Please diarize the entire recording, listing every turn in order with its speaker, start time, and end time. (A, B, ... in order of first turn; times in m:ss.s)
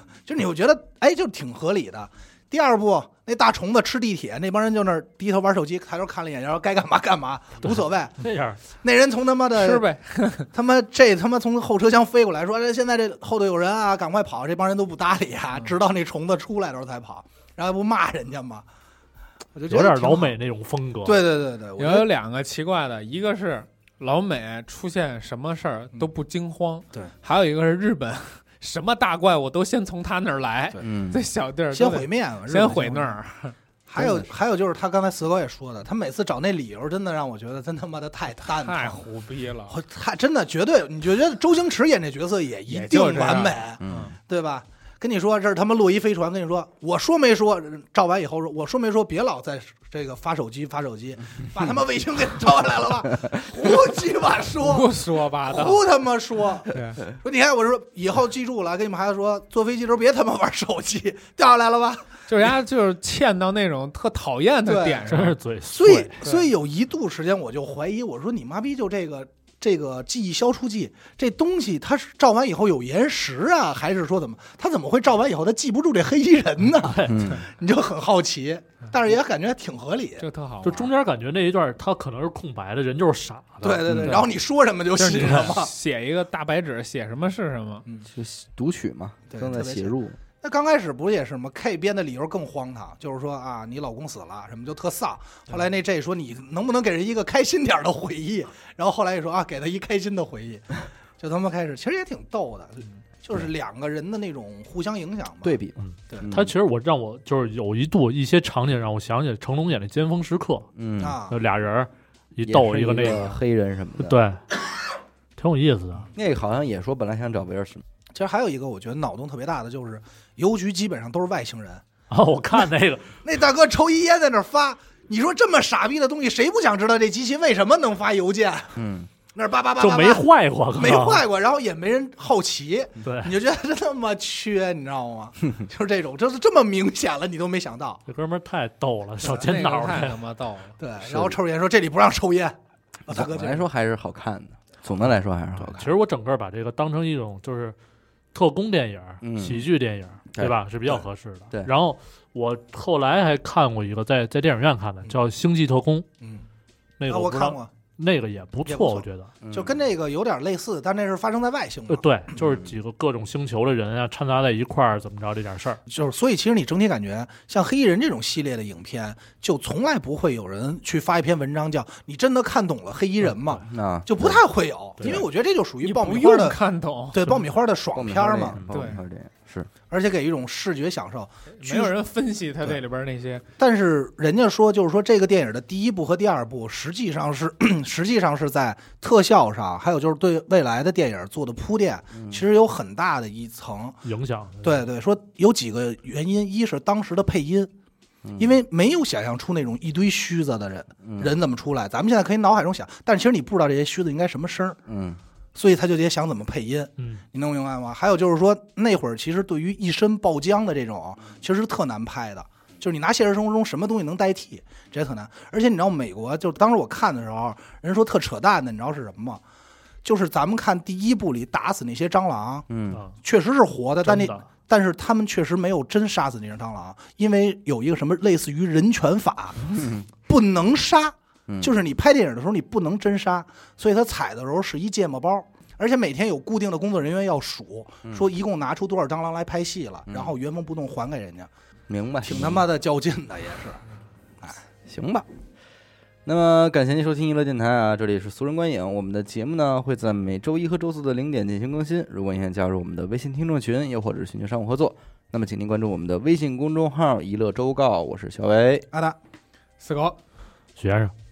0:00.2-0:08.2 A
0:07.6-0:08.6 B
0:08.8-0:09.8 A
0:09.6-0:10.5 C
0:10.5-0:18.6 A
0:19.5-0:20.3 A
0:19.7-0:21.2 B
0:21.0-0:22.1 A
0:21.8-0:33.6 C
0:30.8-0:31.2 D
0:31.7-0:33.2 A
0:33.9-0:39.0 A
0:34.0-0:34.3 D
0:38.5-0:39.7 C
0:39.7-0:54.9 A
0:42.7-0:44.1 C
0:43.8-0:44.1 D
0:54.6-0:55.8 C
0:55.4-1:02.2 A
0:56.7-0:57.0 C
1:02.3-1:05.4 C
1:04.6-1:05.0 A
1:05.1-1:06.2 B
1:05.7-1:20.2 A
1:16.8-1:17.3 B
1:17.0-1:17.4 D
1:20.2-1:20.9 C
1:20.6-1:24.1 B
1:23.6-1:25.7 A
1:23.9-1:24.2 D
1:25.0-1:27.8 C
1:28.1-1:30.2 D
1:29.3-1:46.2 A
1:45.4-1:46.5 D
1:45.8-1:50.7 B
1:50.8-1:51.2 D
1:51.0-1:51.4 A
1:51.3-1:53.4 B
1:52.4-1:54.2 D
1:54.0-1:54.4 B
1:55.4-1:56.1 B
1:56.1-1:57.8 D
1:58.1-2:01.8 A
2:02.1-2:03.1 B
2:03.2-2:08.8 A
2:08.8-2:09.1 D
2:09.3-2:18.0 A
2:09.8-2:11.2 B
2:13.0-2:13.3 B
2:18.1-2:20.2 B
2:19.3-2:20.8 C
2:20.8-2:23.6 A
2:21.0-2:21.4 D
2:23.1-2:25.8 D
2:25.8-2:27.8 B
2:28.3-2:36.0 B
2:29.2-2:29.6 D
2:30.3-2:31.7 D
2:37.0-2:39.3 B
2:37.1-2:37.7 A
2:38.6-2:42.4 A
2:39.4-2:39.8 D
2:41.9-2:45.8 B
2:45.9-2:56.6 A
2:53.6-2:54.4 D
2:55.0-2:55.2 B
2:55.8-2:57.2 C
2:57.1-2:58.6 A
2:57.9-2:59.7 D
2:58.7-2:59.0 C
2:59.9-3:01.9 A
3:01.5-3:03.4 C
3:03.6-3:14.0 A
3:12.1-3:12.4 D
3:14.0-3:14.9 B
3:14.6-3:17.7 A
3:18.2-3:18.6 D
3:18.4-3:24.8 A
3:21.0-3:21.3 D
3:24.9-3:25.2 D
3:25.5-3:39.4 A
3:40.0-3:42.7 A
3:42.7-3:43.0 D
3:43.2-3:49.7 A
3:44.0-3:44.4 B
3:49.6-3:50.0 D
3:50.2-4:01.5 A
3:51.5-3:51.7 D
4:00.1-4:00.3 D
4:01.9-4:02.6 D
4:02.2-4:03.8 A
4:04.8-4:05.2 D
4:06.2-4:18.8 D
4:18.9-4:19.2 A
4:19.8-4:20.2 C
4:20.8-4:21.1 B